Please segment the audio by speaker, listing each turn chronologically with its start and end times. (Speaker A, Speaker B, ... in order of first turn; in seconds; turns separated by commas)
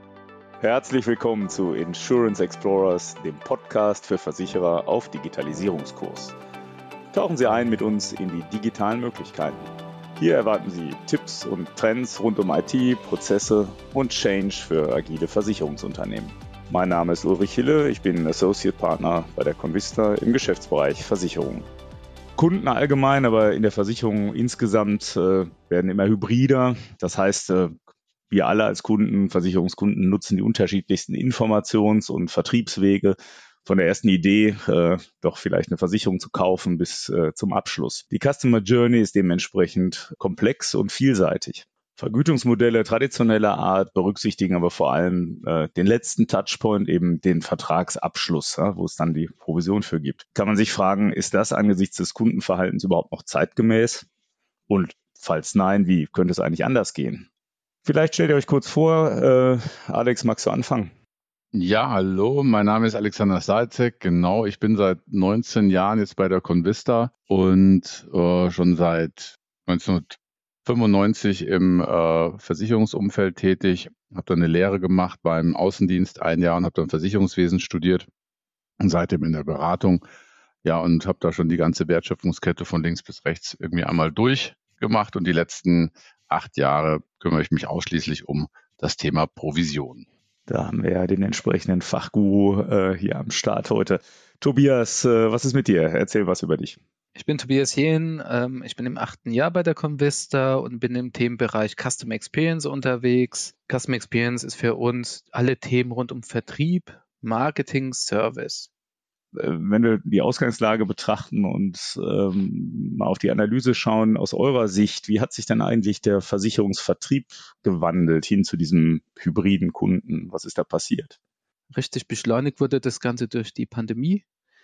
Speaker A: 0.6-6.4, Speaker A: 7.1-21.7, Speaker A: 22.4-27.8, Speaker A: 28.3-54.1, Speaker A: 54.7-57.3, Speaker A: 57.9-60.9, Speaker B: 61.5-78.1, Speaker B: 78.8-80.0, Speaker B: 80.6-90.0, Speaker A: 90.5-96.8, Speaker C: 97.2-108.7, Speaker A: 109.3-121.2, Speaker C: 121.7-124.2